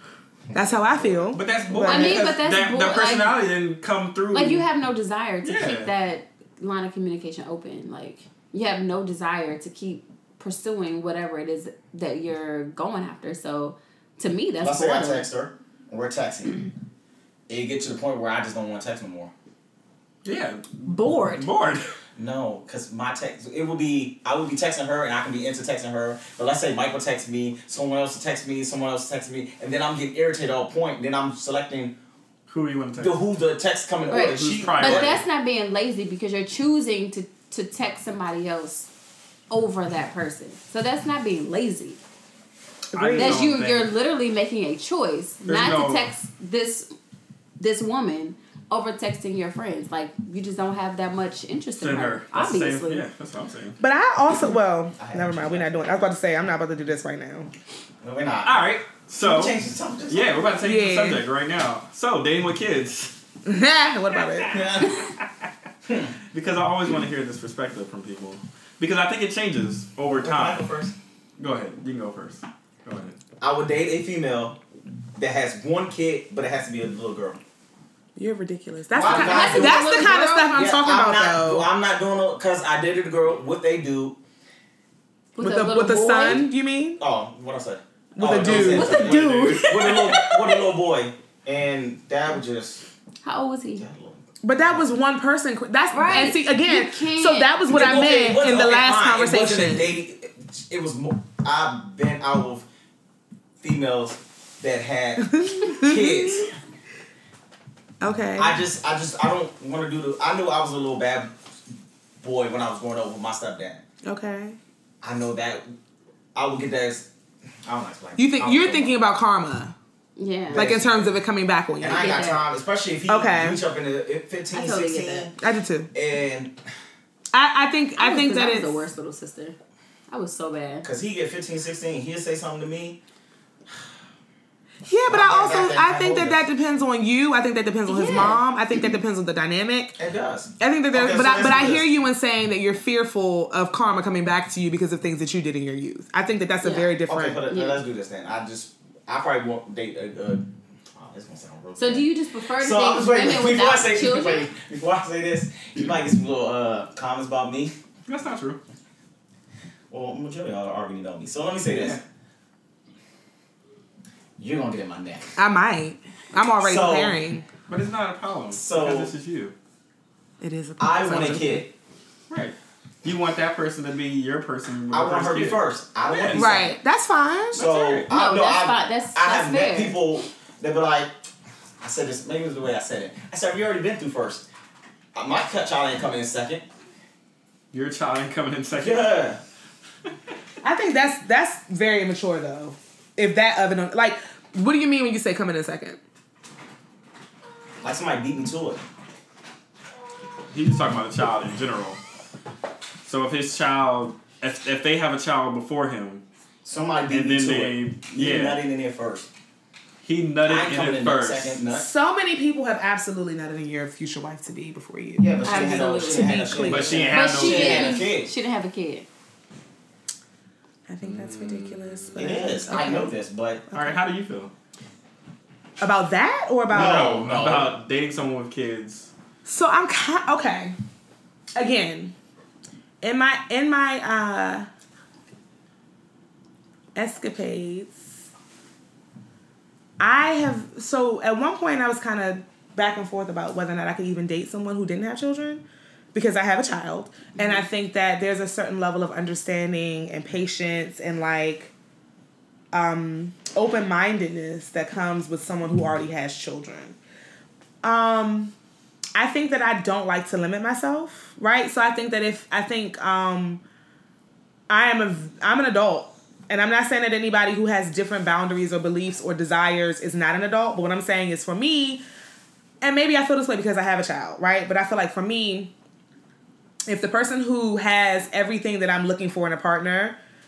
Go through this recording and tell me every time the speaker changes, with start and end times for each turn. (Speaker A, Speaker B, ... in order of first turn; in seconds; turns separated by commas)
Speaker A: 0.5-1.4, Speaker B: 0.5-2.4, Speaker C: 1.3-4.7, Speaker D: 1.8-3.4, Speaker D: 4.3-15.3, Speaker C: 5.4-5.9, Speaker A: 14.6-16.6, Speaker A: 17.5-19.3, Speaker C: 20.2-21.9, Speaker D: 20.8-21.5, Speaker A: 22.2-31.9, Speaker C: 32.5-33.2, Speaker A: 33.0-35.2, Speaker D: 34.1-38.9, Speaker C: 34.3-35.2, Speaker D: 39.5-42.0, Speaker C: 42.9-43.9, Speaker B: 42.9-43.4, Speaker D: 43.2-46.9, Speaker C: 45.5-46.1, Speaker D: 47.6-53.0, Speaker C: 51.8-53.8, Speaker B: 53.8-57.5, Speaker A: 55.0-56.1, Speaker A: 58.0-58.6, Speaker C: 58.4-63.2, Speaker A: 59.2-60.5, Speaker B: 60.6-61.2, Speaker B: 63.5-64.6, Speaker C: 64.3-65.1, Speaker A: 64.5-65.1, Speaker A: 65.8-66.2, Speaker C: 66.3-70.6, Speaker A: 70.1-71.0, Speaker C: 71.4-73.2, Speaker A: 73.4-74.6, Speaker A: 75.2-77.4, Speaker B: 78.2-81.7, Speaker A: 78.9-80.0, Speaker D: 79.0-80.7, Speaker A: 80.5-84.2, Speaker D: 85.3-86.5, Speaker B: 85.4-87.0, Speaker A: 87.0-92.8, Speaker B: 88.2-89.1, Speaker C: 88.2-89.8, Speaker D: 88.8-90.6, Speaker D: 93.2-93.9, Speaker A: 93.8-94.8, Speaker B: 94.4-99.9, Speaker D: 95.9-97.8, Speaker A: 97.7-102.7, Speaker A: 103.6-106.5, Speaker B: 105.2-106.4, Speaker B: 108.0-108.6, Speaker A: 108.4-111.4, Speaker A: 112.2-113.8, Speaker B: 114.0-114.6, Speaker A: 115.0-115.7, Speaker A: 116.3-117.1, Speaker A: 117.7-118.9, Speaker B: 118.2-119.8, Speaker D: 120.2-120.7, Speaker B: 120.5-122.1, Speaker A: 120.5-121.2, Speaker A: 121.8-125.3, Speaker D: 121.9-122.5, Speaker B: 123.1-123.6, Speaker D: 124.5-125.3, Speaker B: 125.4-125.9, Speaker A: 125.9-126.6, Speaker B: 127.3-128.9, Speaker D: 128.0-129.6, Speaker D: 130.1-130.9, Speaker A: 130.8-133.0, Speaker B: 134.9-139.9, Speaker A: 135.1-136.5, Speaker D: 137.9-138.4, Speaker A: 140.0-141.9, Speaker B: 140.6-147.4, Speaker D: 146.6-146.9, Speaker A: 147.1-152.1, Speaker D: 147.5-147.8, Speaker D: 151.8-154.5, Speaker A: 152.6-157.7, Speaker C: 158.1-158.6, Speaker A: 159.9-162.0, Speaker C: 161.7-162.0, Speaker A: 164.4-165.3, Speaker B: 165.4-167.5, Speaker A: 166.6-167.2, Speaker C: 167.7-169.6, Speaker A: 168.5-169.1, Speaker B: 170.4-171.3, Speaker A: 170.8-171.7, Speaker C: 171.0-171.6, Speaker C: 172.3-176.5, Speaker A: 174.9-176.7, Speaker B: 176.3-177.6, Speaker C: 177.5-178.1, Speaker A: 177.5-181.1, Speaker D: 178.1-180.0, Speaker A: 181.8-184.5, Speaker A: 185.2-186.7, Speaker C: 187.7-189.2, Speaker A: 188.8-189.4, Speaker B: 190.6-196.0, Speaker A: 197.8-198.8, Speaker C: 200.5-202.0, Speaker C: 203.0-206.2, Speaker A: 206.7-209.3, Speaker C: 207.1-208.6, Speaker C: 210.0-211.6, Speaker A: 210.4-211.9, Speaker B: 211.7-217.2, Speaker A: 215.2-218.3, Speaker D: 215.4-216.5, Speaker C: 216.6-218.0, Speaker D: 217.1-219.1, Speaker B: 220.9-223.2, Speaker C: 221.0-222.4, Speaker A: 222.2-223.6, Speaker B: 223.7-224.0, Speaker C: 223.7-224.5, Speaker B: 225.8-227.2, Speaker A: 226.7-227.8, Speaker C: 226.7-229.1, Speaker B: 229.4-230.8, Speaker B: 231.6-232.1, Speaker B: 233.0-234.7, Speaker B: 236.9-238.1, Speaker B: 240.0-251.7, Speaker B: 252.7-257.0, Speaker B: 257.8-258.5, Speaker B: 259.1-263.6, Speaker B: 264.7-272.0, Speaker B: 272.8-275.7, Speaker B: 276.9-280.2